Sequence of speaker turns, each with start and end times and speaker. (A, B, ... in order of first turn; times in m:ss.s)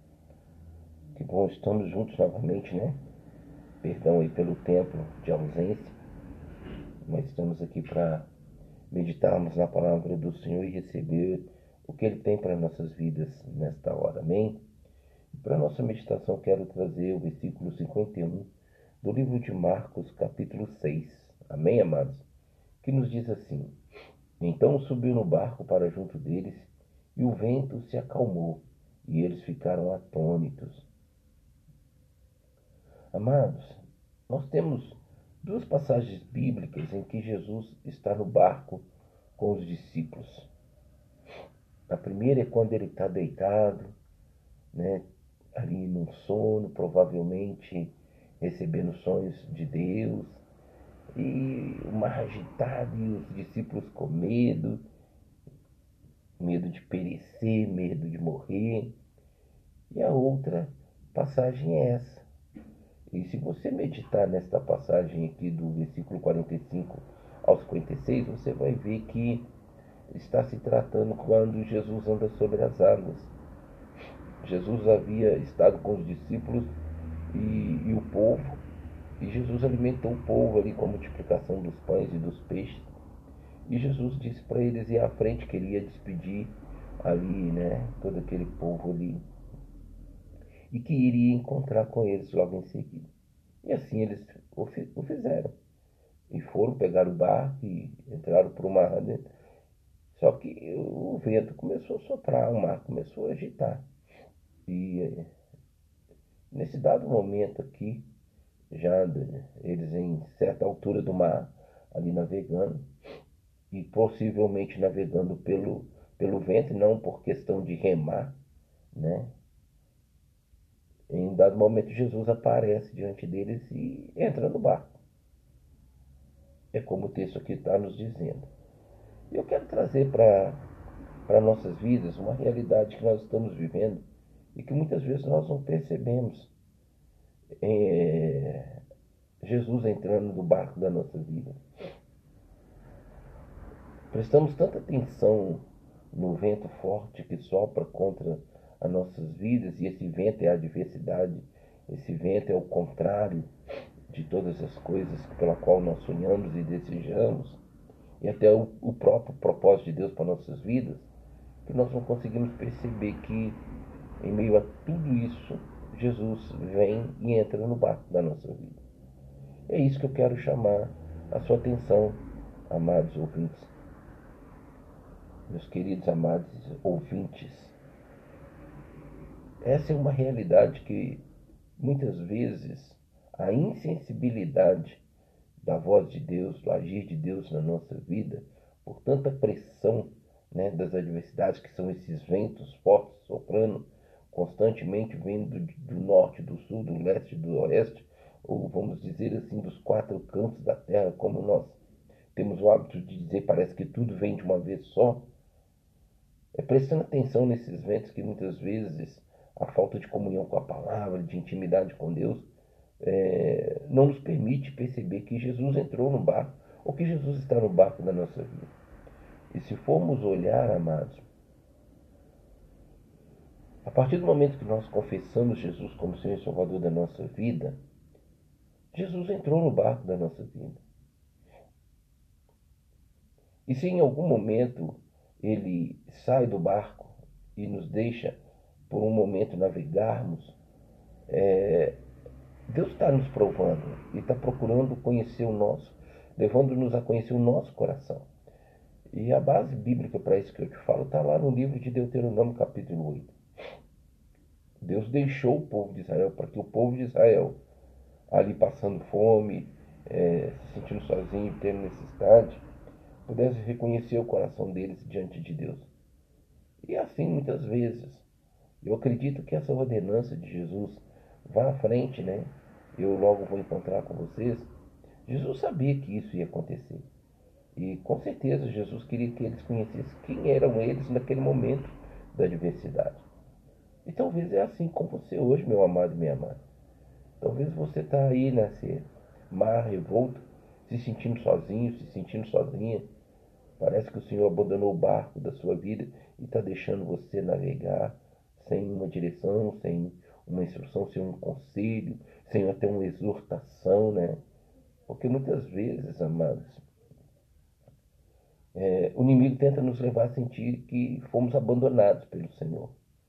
0:01.1-0:03.0 A
0:03.8-0:06.0 A
0:07.0-0:08.3 A
0:08.9-0:14.6 A
0:15.3-0:22.2 A
0:22.8-0:23.8 A
0:24.4-0:30.9 A
0:33.1-0:40.5 A
0:41.9-0:43.9 A
0:44.7-0:50.4 A
0:51.1-0:54.8 A
0:56.4-0:59.0 A
0:59.9-1:02.2 A
1:03.1-1:09.5 A
1:10.1-1:13.3 A
1:14.4-1:16.8 A
1:17.3-1:18.6 A
1:19.2-1:22.9 A
1:23.6-1:29.2 A
1:30.7-1:33.1 A
1:33.6-1:35.5 A
1:36.3-1:39.3 A
1:40.1-1:43.8 A
1:44.7-1:45.3 A
1:46.5-1:48.0 A
1:48.7-1:52.9 A
1:53.7-1:58.4 A
1:58.9-1:59.3 A
2:01.1-2:05.0 A
2:06.7-2:08.5 A
2:09.3-2:10.6 A
2:11.3-2:16.5 A
2:17.6-2:18.8 A
2:19.4-2:21.6 A
2:24.1-2:33.5 A
2:34.1-2:37.6 A
2:38.2-2:41.1 A
2:41.6-2:43.6 A
2:44.2-2:48.8 A
2:49.7-2:53.7 A
2:55.5-2:57.8 A
2:59.6-3:01.2 A
3:01.8-3:05.0 A
3:05.6-3:21.8 A
3:22.3-3:25.3 A
3:26.5-3:32.5 A
3:33.0-3:38.7 A
3:39.5-3:41.2 A
3:43.8-3:47.8 A
3:48.9-3:50.8 A
3:53.6-4:00.6 A
4:01.3-4:02.0 A
4:02.7-4:08.3 A
4:09.1-4:13.3 A
4:14.8-4:17.6 A
4:18.3-4:22.6 A
4:23.2-4:25.9 A
4:26.8-4:28.2 A
4:28.8-4:34.7 A
4:35.2-4:37.1 A
4:37.7-4:43.2 A
4:44.0-4:46.6 A
4:47.4-4:53.1 A
4:53.8-5:04.4 A
5:05.1-5:06.8 A
5:08.7-5:13.0 A